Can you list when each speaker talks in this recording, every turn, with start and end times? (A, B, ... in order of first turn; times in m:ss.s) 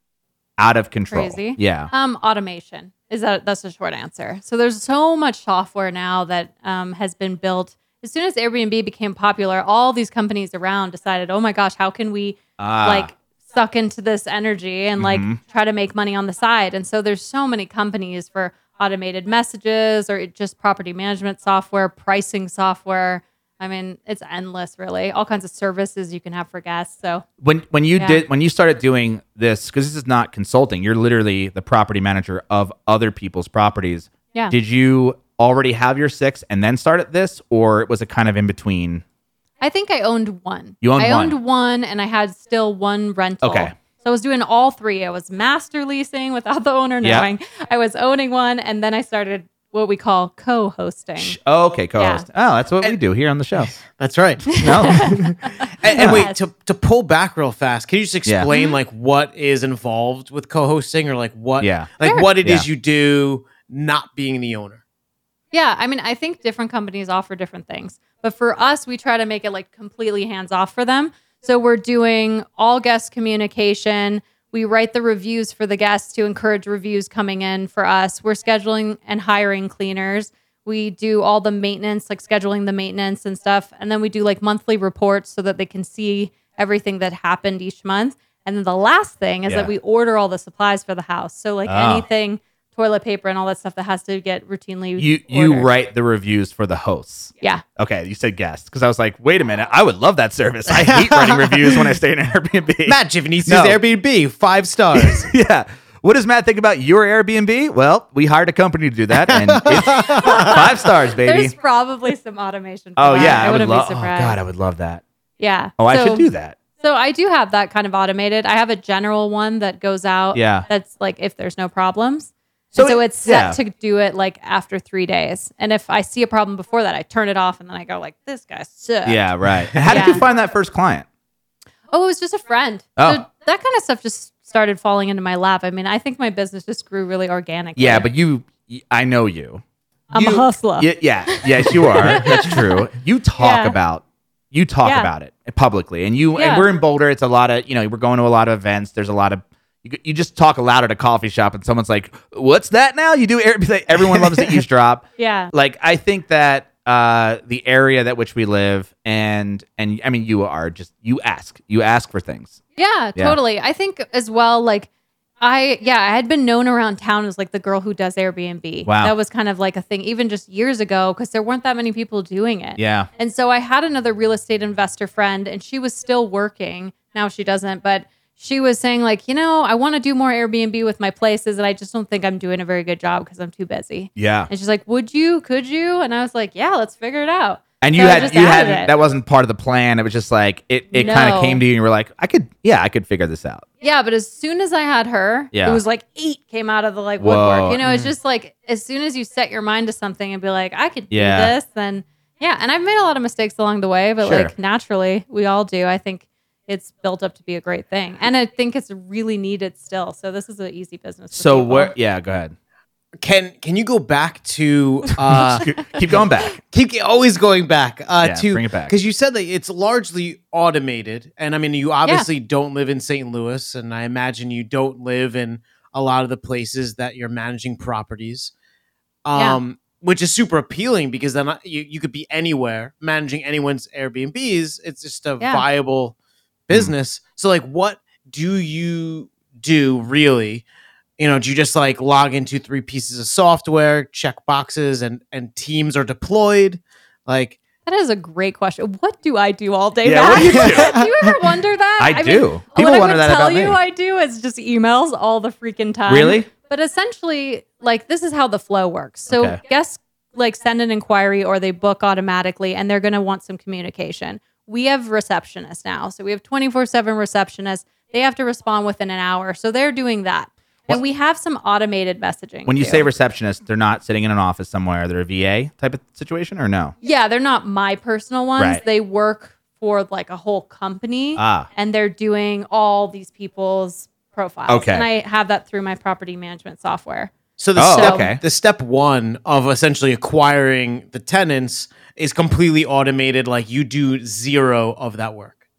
0:00.6-0:01.9 A
0:01.1-0:27.3 B
0:12.6-0:13.1 A
0:15.0-0:15.4 A
0:27.4-0:39.0 A
0:28.0-0:28.2 B
0:39.6-0:51.4 B
0:40.8-0:41.4 A
0:43.4-0:43.7 A
0:47.0-0:47.3 A
0:51.2-0:53.7 A
0:52.0-0:52.2 B
0:53.8-1:04.8 C
0:54.5-0:56.4 B
0:54.6-0:55.2 A
0:55.9-0:56.3 A
0:58.5-0:58.8 B
1:01.6-1:01.9 A
1:02.0-1:02.3 B
1:05.5-1:35.7 B
1:29.5-1:29.7 A
1:31.7-1:32.1 A
1:35.0-1:43.8 A
1:40.7-1:41.9 C
1:42.9-1:45.3 C
1:44.9-1:51.5 A
1:49.3-1:50.5 C
1:50.1-1:54.4 B
1:53.0-1:55.0 A
1:55.4-1:56.3 B
1:55.8-1:56.6 A
1:56.8-2:10.3 B
2:00.3-2:00.7 A
2:02.7-2:03.6 A
2:09.0-2:11.1 A
2:09.7-2:10.0 C
2:11.9-2:18.1 B
2:13.0-2:13.2 A
2:17.8-2:19.6 A
2:20.1-2:22.9 B
2:20.1-2:42.6 A
2:23.4-2:23.8 B
2:24.8-2:25.1 B
2:26.4-2:26.7 B
2:35.2-2:35.5 B
2:42.8-2:44.9 B
2:45.4-3:08.9 B
2:48.9-2:49.1 A
2:52.8-2:53.1 A
3:04.2-3:04.5 A
3:07.8-3:13.6 A
3:10.9-3:11.6 B
3:13.8-3:31.9 B
3:15.5-3:15.8 A
3:17.2-3:18.1 A
3:21.1-3:21.5 A
3:24.2-3:24.5 A
3:31.3-3:32.6 A
3:33.2-3:35.7 C
3:35.3-3:36.6 A
3:35.6-3:36.0 B
3:36.7-3:48.5 C
3:38.2-3:38.9 A
3:49.2-3:56.2 C
3:56.7-4:00.6 C
4:01.2-4:07.6 C
4:07.9-4:33.1 B
4:10.0-4:11.0 A
4:10.4-4:11.0 C
4:12.0-4:13.8 A
4:16.1-4:16.5 A
4:19.3-4:19.6 A
4:32.7-4:36.9 A
4:37.0-4:47.3 B
4:41.4-4:41.7 A
4:44.7-4:45.1 A
4:47.6-4:55.6 C
4:47.8-4:48.4 A
4:48.0-4:48.3 B